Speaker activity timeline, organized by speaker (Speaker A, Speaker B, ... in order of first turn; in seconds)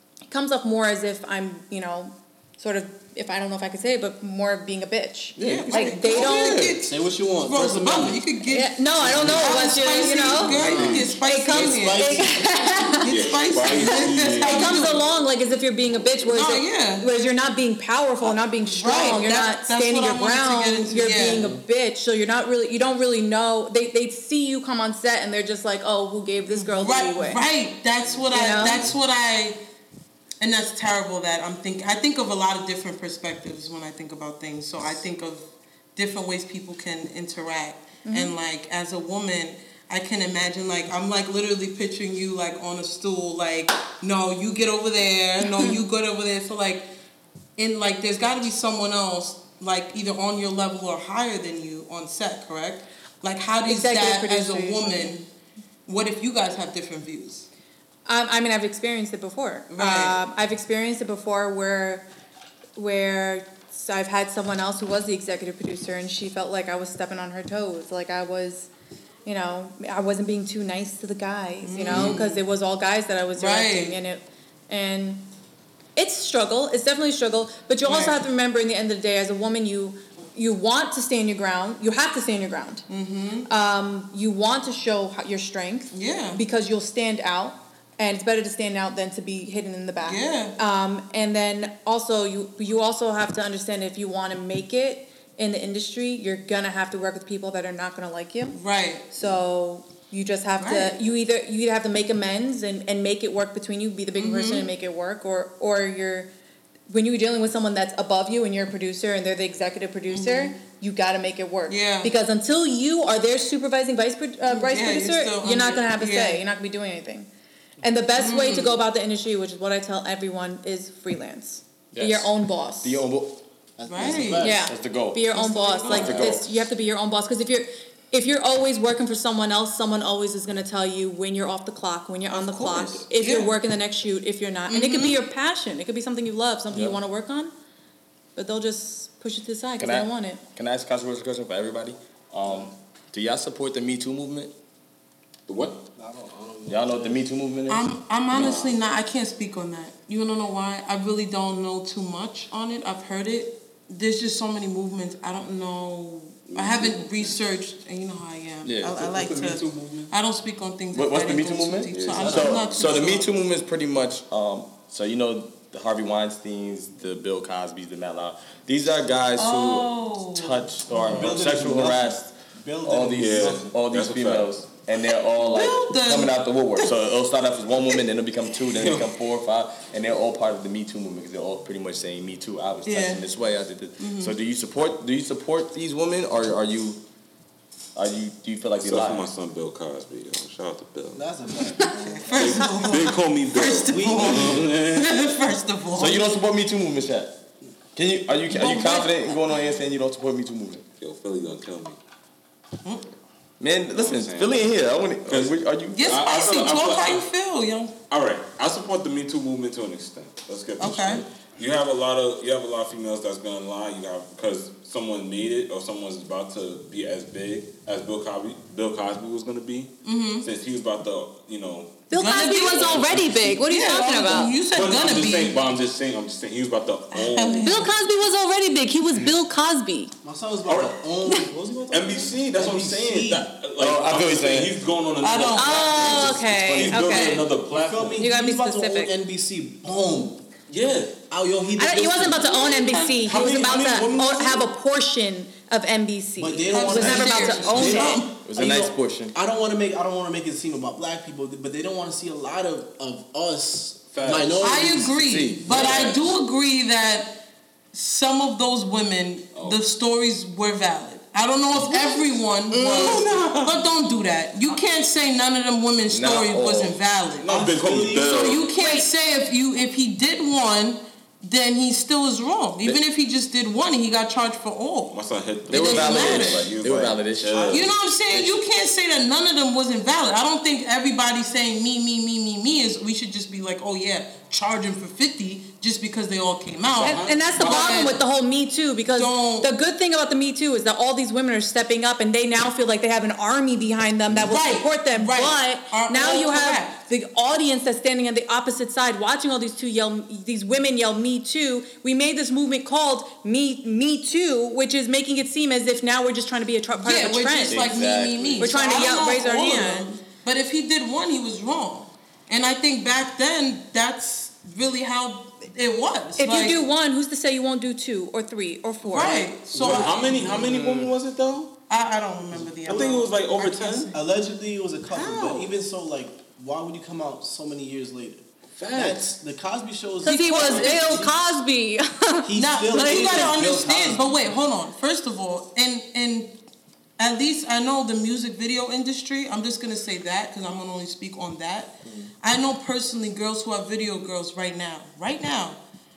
Speaker A: 0.3-6.7, 8.5-27.4, 28.3-28.9, 38.0-38.3, 53.7-55.1, 58.1-62.1, 62.8-68.7, 69.2-75.3, 76.0-82.8, 83.5-98.6, 99.1-106.3, 106.9-117.3, 117.8-123.0, 124.4-137.5, 138.3-140.4, 222.1-224.6, 227.6-230.1, 235.6-237.6, 238.2-239.1, 241.8-248.3, 268.8-269.1, 287.0-307.9, 308.6-310.1, 316.4-319.5, 325.1-325.7, 330.2-333.6
Speaker B: 5.4-5.7, 6.8-8.2, 9.0-9.6, 10.5-12.5, 21.3-21.6, 28.6-28.9, 123.8-124.7, 145.9-147.3, 162.1-162.7, 171.0-173.7, 191.1-192.8, 193.9-194.7, 230.2-233.5, 237.7-240.5, 241.3-242.6, 246.4-256.1, 267.5-268.6, 319.7-320.9, 324.1-331.3, 332.4-334.2, 342.0-342.3
Speaker C: 5.4-12.2, 13.0-15.0, 16.3-17.1, 18.6-21.4, 26.5-29.6, 30.4-46.9, 47.6-55.3, 55.9-57.5, 59.7-60.2, 71.6-72.4, 73.4-74.0, 77.8-78.2, 82.9-83.5, 85.9-86.4, 90.0-90.6, 98.5-99.1, 100.6-101.0, 104.2-104.7, 110.1-110.5, 111.7-112.1, 114.5-116.5, 118.1-118.8, 123.9-124.5, 125.3-126.4, 132.3-133.6, 134.7-135.2, 147.7-163.3, 169.4-171.3, 175.4-176.9, 182.9-183.2, 184.0-184.3, 191.9-196.2, 198.5-199.6, 205.9-208.0, 210.8-211.2, 220.0-220.5, 222.1-225.6, 227.1-227.9, 235.2-236.3, 242.4-243.5, 246.7-248.3, 254.6-275.1, 275.7-276.7, 277.7-288.2, 289.1-289.7, 294.4-297.0, 307.0-316.9, 319.0-320.5, 321.9-324.1, 330.2-331.2, 332.6-336.5, 337.2-345.8
Speaker D: 5.5-6.6, 121.9-123.4, 124.0-125.2, 125.9-126.6, 139.8-144.5, 146.7-148.6, 158.6-158.9, 160.9-172.2, 172.8-187.0, 187.9-189.3, 195.9-197.3, 197.9-200.8, 203.6-206.3, 233.8-234.8, 236.8-237.4, 248.4-249.3, 255.2-256.0, 266.1-267.0, 275.7-278.6, 307.7-308.7
Speaker E: 9.0-9.3, 10.3-11.1, 13.1-15.1, 145.5-145.8, 148.3-148.8, 156.5-157.3, 158.8-160.1, 161.9-162.6, 173.2-174.5, 178.7-179.1, 188.8-191.2, 192.3-195.1, 201.0-202.0, 203.9-207.2, 208.1-222.0, 222.6-223.6, 224.6-227.9, 230.7-231.0, 231.9-238.2, 240.7-241.2, 243.2-244.7, 254.1-254.7, 255.7-256.3, 259.6-259.8, 262.7-263.9, 267.4-268.7, 275.1-277.9, 287.0-288.2, 319.2-321.8, 322.9-324.1, 328.8-329.2